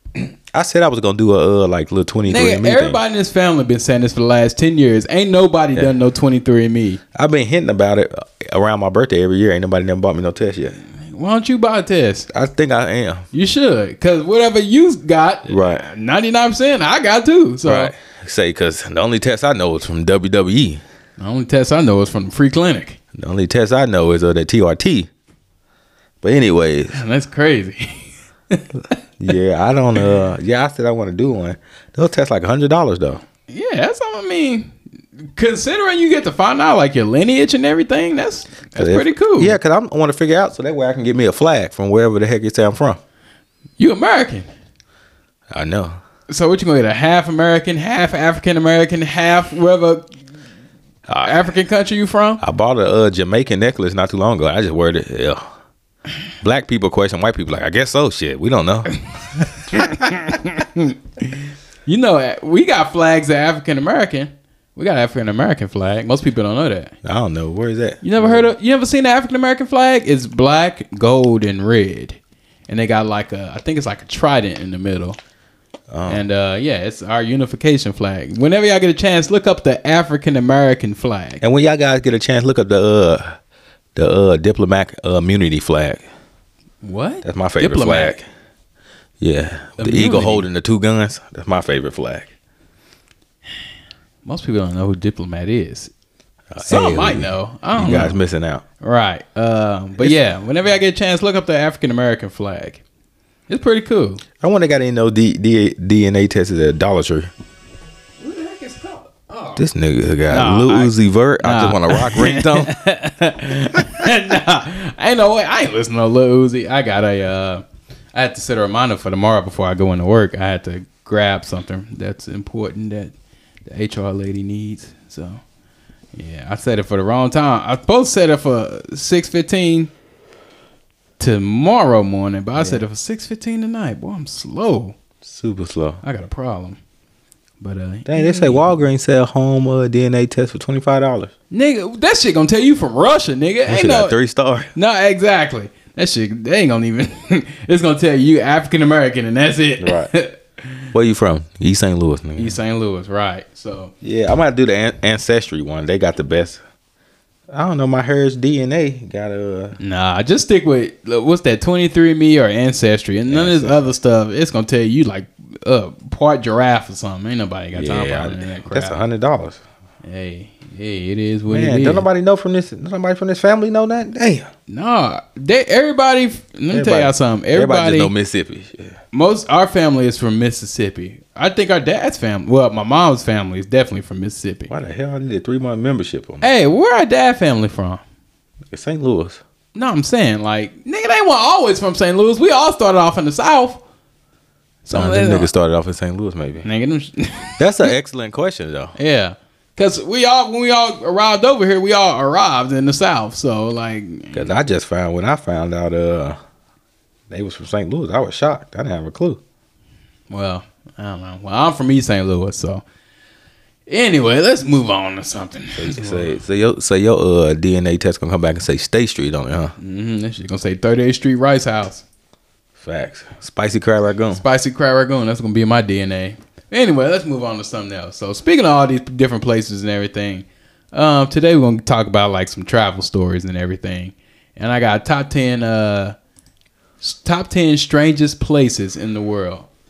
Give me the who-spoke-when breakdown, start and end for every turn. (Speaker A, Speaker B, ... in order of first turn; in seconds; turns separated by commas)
Speaker A: 0.5-3.0, Speaker B: 2.3-7.0, Speaker A: 7.1-10.8, Speaker B: 11.1-12.3, Speaker A: 12.3-13.3, Speaker B: 13.3-17.9, Speaker A: 15.5-15.9, Speaker A: 17.6-20.8, Speaker B: 21.2-23.0, Speaker A: 23.1-25.1, Speaker A: 26.2-27.0, Speaker B: 26.9-28.9, Speaker A: 29.2-33.2, Speaker B: 33.5-39.6, Speaker A: 38.8-43.0, Speaker B: 43.8-44.5, Speaker A: 45.5-46.0, Speaker B: 46.3-50.1, Speaker A: 51.1-51.5, Speaker B: 51.2-52.4, Speaker A: 52.4-55.5, Speaker A: 56.4-58.9, Speaker B: 59.4-66.9, Speaker A: 67.0-68.5, Speaker B: 68.0-75.2, Speaker A: 75.9-76.2, Speaker B: 76.1-81.4, Speaker A: 81.4-83.4, Speaker A: 84.0-86.0, Speaker B: 86.8-88.2, Speaker A: 87.2-88.2, Speaker A: 89.2-92.3, Speaker B: 89.8-90.5, Speaker B: 94.2-95.9, Speaker A: 96.5-98.6, Speaker B: 96.6-98.2, Speaker B: 98.8-102.8, Speaker B: 103.5-104.2, Speaker A: 104.4-107.3, Speaker B: 108.2-109.7, Speaker A: 109.6-112.7, Speaker B: 110.3-117.6, Speaker B: 118.2-123.1, Speaker B: 123.7-125.4, Speaker B: 126.1-129.9, Speaker B: 131.2-135.0, Speaker A: 132.6-132.8, Speaker A: 135.2-136.0, Speaker B: 136.0-136.8, Speaker B: 137.6-138.8, Speaker A: 138.1-141.3, Speaker B: 141.5-144.2, Speaker A: 143.7-144.7, Speaker B: 144.8-150.8, Speaker A: 149.8-150.1, Speaker A: 150.9-152.6, Speaker B: 152.4-153.9, Speaker A: 154.0-156.6, Speaker A: 157.5-159.8, Speaker B: 159.8-169.0, Speaker A: 163.3-163.8, Speaker A: 167.7-169.6, Speaker B: 170.0-172.1, Speaker A: 171.5-174.5, Speaker B: 174.7-178.1, Speaker A: 176.7-178.9, Speaker B: 179.1-184.7, Speaker A: 184.7-186.5, Speaker B: 186.4-188.0, Speaker A: 188.7-189.4, Speaker B: 189.8-193.8, Speaker B: 194.8-195.5, Speaker A: 194.9-196.7, Speaker B: 196.6-197.9, Speaker A: 197.6-198.9, Speaker B: 199.0-204.5, Speaker A: 204.3-206.4, Speaker A: 207.3-209.4, Speaker B: 210.3-212.8, Speaker B: 213.9-216.4, Speaker A: 215.8-219.7, Speaker B: 219.8-222.0, Speaker A: 222.8-224.4, Speaker B: 224.3-236.2, Speaker B: 237.0-239.7